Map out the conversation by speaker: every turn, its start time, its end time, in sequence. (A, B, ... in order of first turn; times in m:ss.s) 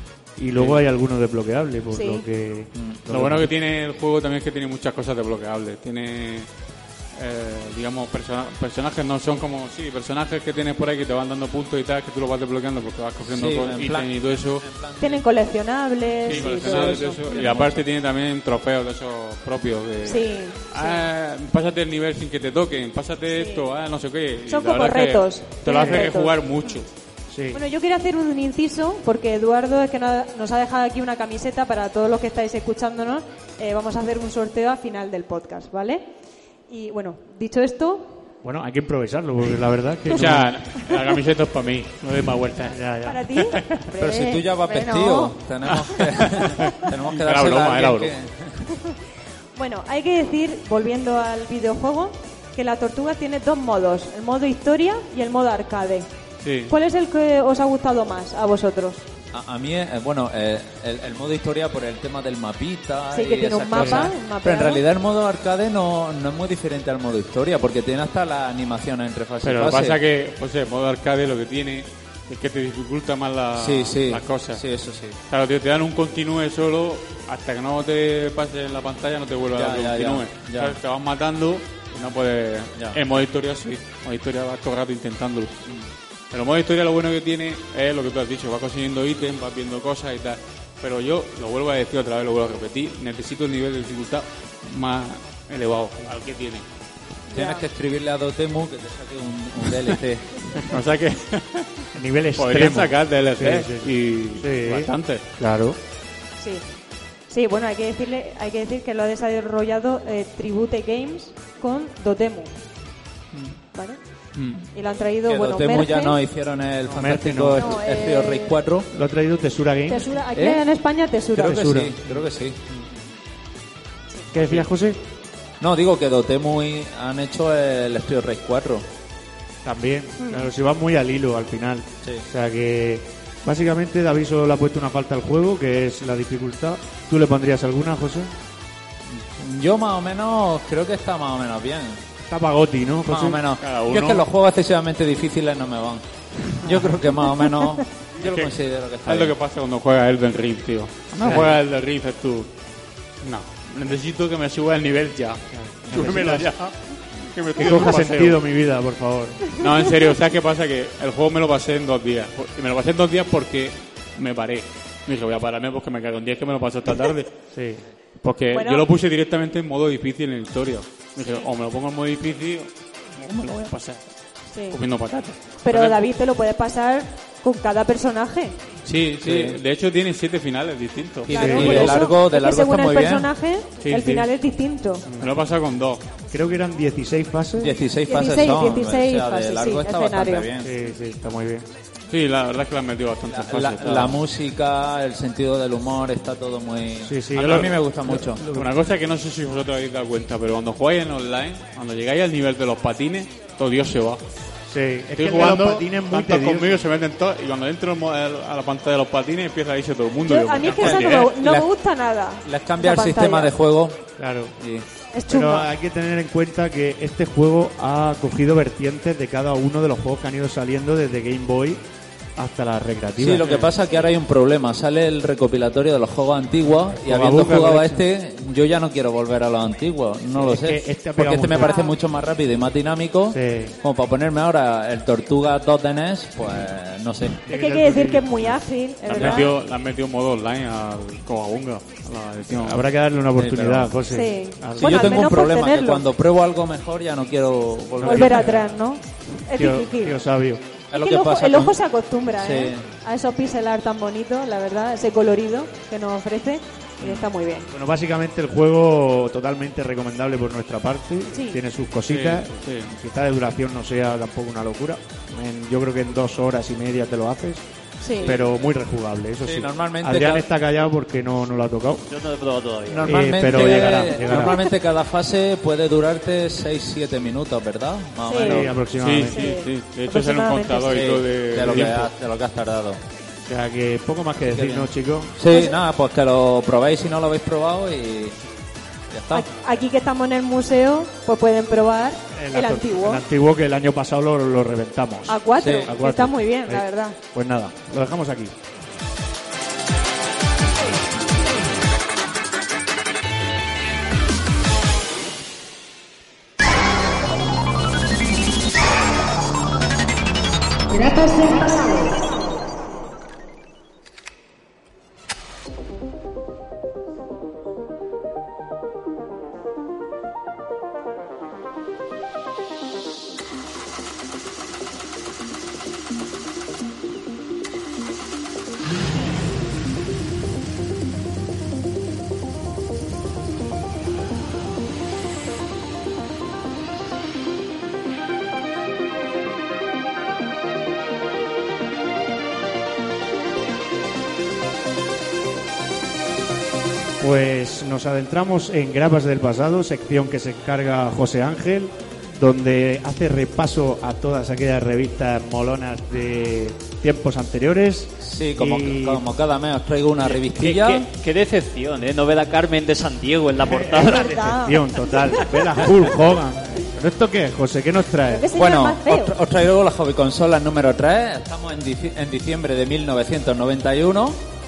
0:00.4-0:03.5 A
0:00.6-0:00.8 B
0:01.9-0:02.2 C
0:02.7-0:03.0 D
0:03.1-0:06.5 B
0:07.1-0:14.6 B
0:13.3-0:15.2 D
0:15.0-0:17.7 C
0:16.2-0:26.9 B
0:16.3-0:17.8 D
0:20.0-0:21.1 C
0:23.3-0:23.6 C
0:24.5-0:26.8 C
0:25.7-0:26.1 A
0:27.3-0:27.6 A
0:27.5-0:36.1 C
0:36.6-0:38.2 C
0:38.4-0:40.7 A
0:40.1-0:42.9 B
0:42.7-0:43.8 A
0:43.0-0:46.7 C
0:44.0-0:48.6 D
0:45.6-0:48.1 B
0:49.6-0:56.1 C
0:56.4-0:56.7 B
0:56.6-0:59.0 C
0:59.3-1:10.0 D
1:03.1-1:04.8 C
1:09.4-1:14.6 B
1:13.6-1:15.2 D
1:15.3-1:25.6 B
1:19.6-1:20.8 D
1:26.3-1:36.6 B
1:37.3-1:37.6 C
1:37.3-1:40.4 D
1:40.5-1:45.2 B
1:42.0-1:45.8 A
1:46.4-1:46.6 C
1:47.3-1:52.5 C
1:53.7-1:54.0 C
1:54.3-1:54.6 B
1:54.6-1:56.2 C
1:55.2-1:58.9 D
1:56.9-1:57.8 A
1:57.5-1:58.6 C
1:58.9-2:00.2 A
1:59.9-2:01.6 C
2:00.3-2:00.6 D
2:01.3-2:02.6 D
2:01.4-2:02.8 A
2:04.3-2:05.0 A
2:05.6-2:08.8 D
2:09.6-2:18.3 A
2:10.2-2:10.5 C
2:19.1-2:22.0 D
2:22.2-2:23.4 A
2:23.1-2:26.0 D
2:23.6-2:24.2 B
2:26.6-2:29.3 D
2:28.2-2:32.5 B
2:31.2-2:31.6 A
2:33.2-2:38.4 B
2:35.5-2:36.7 A
2:37.6-2:39.6 A
2:39.4-2:47.4 B
2:47.5-2:47.8 A
2:48.2-2:54.0 B
2:48.5-2:48.8 C
2:51.2-2:51.4 C
2:54.5-2:54.8 C
2:54.6-2:56.0 B
2:55.6-2:58.6 C
2:58.8-3:01.9 B
2:59.2-2:59.6 D
3:01.3-3:03.3 D
3:01.3-3:05.0 C
3:01.3-3:01.8 A
3:03.8-3:04.3 B
3:05.1-3:05.4 A
3:05.2-3:06.2 B
3:06.3-3:07.8 A
3:07.6-3:10.7 D
3:08.1-3:10.5 C
3:10.6-3:11.7 A
3:12.1-3:14.2 B
3:13.3-3:18.4 D
3:17.0-3:18.7 A
3:17.4-3:17.7 B
3:18.4-3:24.2 B
3:24.7-3:26.8 A
3:25.1-3:31.4 B
3:30.2-3:33.5 C
3:30.7-3:31.7 D
3:32.4-3:34.8 D
3:34.2-3:34.5 A
3:35.1-3:35.7 C
3:35.3-3:41.8 A
3:42.4-3:43.7 A
3:43.2-3:57.4 D
3:46.9-3:48.0 A
3:50.3-3:51.8 A
3:51.6-3:51.9 C
3:53.3-3:53.8 A
3:57.4-3:58.6 A
3:57.5-3:59.5 C
3:59.0-4:02.8 B
4:02.5-4:05.2 A
4:03.4-4:03.9 D
4:04.1-4:06.0 C
4:04.8-4:08.5 D
4:08.0-4:08.7 A
4:08.0-4:10.2 C
4:09.5-4:10.8 A
4:10.9-4:11.8 D
4:10.9-4:17.7 C
4:12.4-4:12.9 D
4:17.7-4:27.6 A
4:21.3-4:21.6 C
4:22.0-4:22.9 B
4:28.0-4:28.4 C
4:28.2-4:32.0 A
4:29.4-4:30.4 D
4:32.0-4:33.8 E
4:32.9-4:38.6 D
4:33.0-4:34.6 A
4:38.2-4:38.7 C
4:38.4-4:42.1 B
4:38.5-4:39.5 A
4:39.2-4:41.0 C
4:40.9-4:43.0 D
4:43.4-4:45.3 A
4:44.4-4:48.4 D
4:45.4-4:45.8 C
4:49.1-4:49.5 D
4:49.3-4:53.2 C
4:52.3-4:58.5 A
4:55.3-4:57.2 C
4:55.6-4:55.9 D
5:10.9-5:12.0 C
5:47.2-5:59.2 A
5:58.2-6:01.0 D
6:00.2-6:04.3 E
6:03.7-6:08.5 A
6:04.0-6:05.4 C
6:08.3-6:09.4 C
6:08.5-6:14.4 D